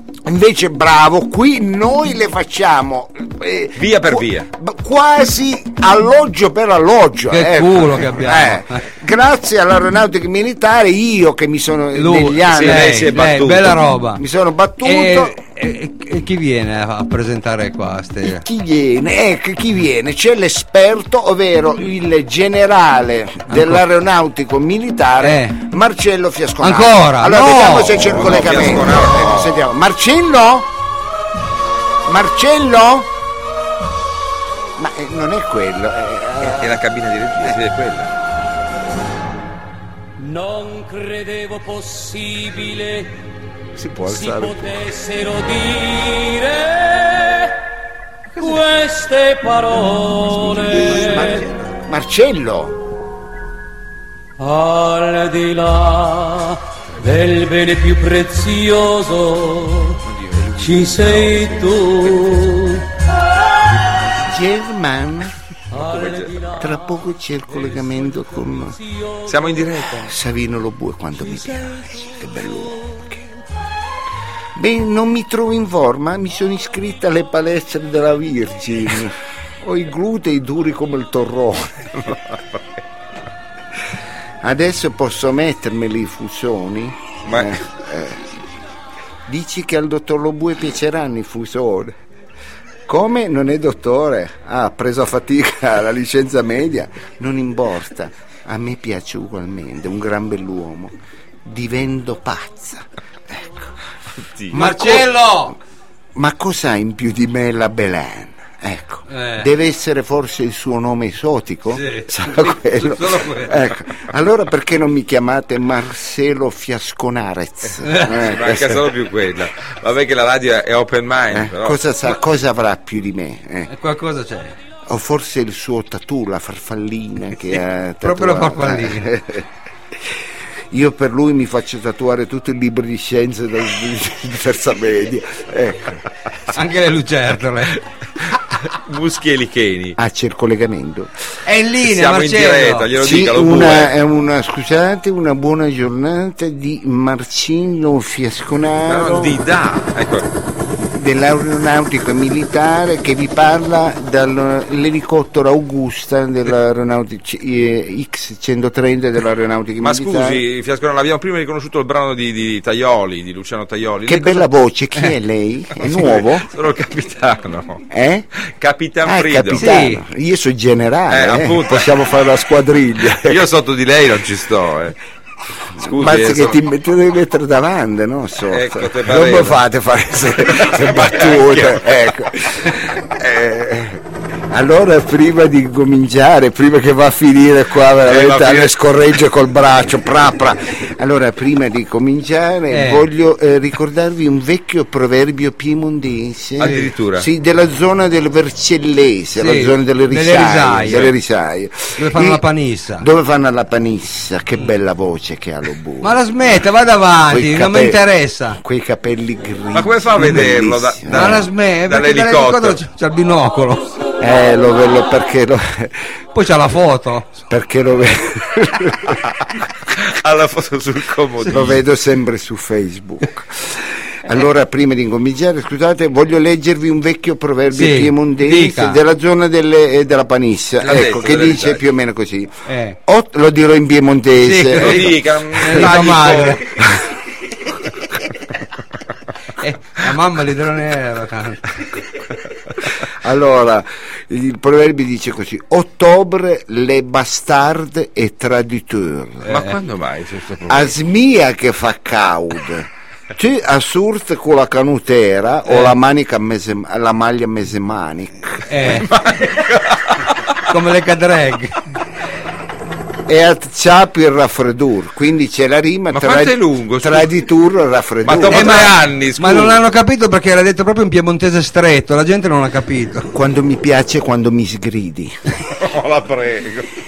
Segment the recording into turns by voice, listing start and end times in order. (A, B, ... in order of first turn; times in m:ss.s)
0:00.2-0:13.2 A
0:03.8-0:04.5 B
0:07.3-0:08.6 C
0:11.9-0:14.2 C
0:12.5-0:13.8 B
0:14.2-0:15.4 A
0:14.8-0:18.4 C
0:18.2-0:30.7 A
0:23.5-0:23.8 C
0:25.2-0:25.6 C
0:26.6-0:28.2 C
0:28.0-0:29.7 B
0:32.0-0:33.1 A
0:34.8-0:36.8 A
0:36.4-0:38.1 B
0:40.2-0:43.1 D
0:43.8-0:44.8 A
0:44.1-0:47.4 D
0:48.4-0:51.4 D
0:50.5-0:52.8 A
0:54.4-1:00.0 D
1:00.0-1:02.6 B
1:00.6-1:02.8 D
1:04.2-1:05.4 A
1:05.7-1:06.7 D
1:05.7-1:06.6 B
1:06.6-1:08.8 A
1:08.8-1:09.6 D
1:09.2-1:10.1 B
1:10.0-1:13.2 A
1:14.6-1:22.0 A
1:22.0-1:22.4 B
1:24.4-1:28.2 A
1:27.3-1:27.6 B
1:29.3-1:32.0 A
1:32.9-1:40.9 A
1:41.4-1:43.7 A
1:44.4-1:44.7 B
1:44.5-1:45.1 A
1:44.5-1:45.6 C
1:46.2-1:58.8 A
1:49.1-1:49.5 C
1:51.7-1:53.6 C
1:57.8-1:58.1 C
1:58.1-2:01.8 B
2:01.3-2:03.7 A
2:03.7-2:04.6 C
2:04.9-2:09.5 A
2:08.0-2:09.1 C
2:10.7-2:16.0 A
2:16.5-2:17.8 C
2:18.9-2:20.0 B
2:20.0-2:21.1 A
2:21.5-2:22.9 C
2:21.8-2:23.9 B
2:23.0-2:29.4 A
2:28.9-2:30.2 B
2:30.9-2:40.4 A
2:39.8-2:44.5 B
2:44.1-2:46.5 A
2:45.8-2:47.8 B
2:47.9-2:48.3 A
2:48.6-2:49.7 B
2:49.0-2:53.4 A
2:49.6-2:50.0 C
2:51.1-2:51.9 B
2:53.2-2:55.0 B
2:55.8-2:56.6 B
2:55.8-3:22.4 A
2:58.5-2:59.6 B
3:00.5-3:01.8 B
3:08.0-3:08.8 B
3:12.7-3:13.1 C
3:16.6-3:17.3 B
3:19.4-3:21.1 C
3:22.0-3:23.1 C
3:23.0-3:26.2 A
3:26.0-3:28.6 C
3:27.3-3:28.0 A
3:28.5-3:31.5 A
3:29.8-3:32.8 B
3:31.1-3:33.9 C
3:34.2-3:36.0 A
3:36.3-3:37.3 C
3:37.5-3:39.2 A
3:40.0-3:41.8 B
3:41.4-3:55.9 A
3:47.7-3:49.0 C
3:50.8-3:51.8 B
3:52.7-3:53.0 C
3:54.4-3:56.6 C
3:54.8-3:56.8 B
3:59.6-4:01.7 C
4:03.1-4:09.5 A
4:09.5-4:10.9 B
4:10.7-4:19.0 A
4:15.7-4:15.9 C
4:18.7-4:19.1 C
4:19.0-4:20.3 B
4:20.7-4:21.8 C
4:23.3-4:28.9 A
4:26.1-4:27.3 B
4:28.2-4:29.8 B
4:28.5-4:33.3 C
4:33.3-4:35.4 A
4:35.7-4:36.9 B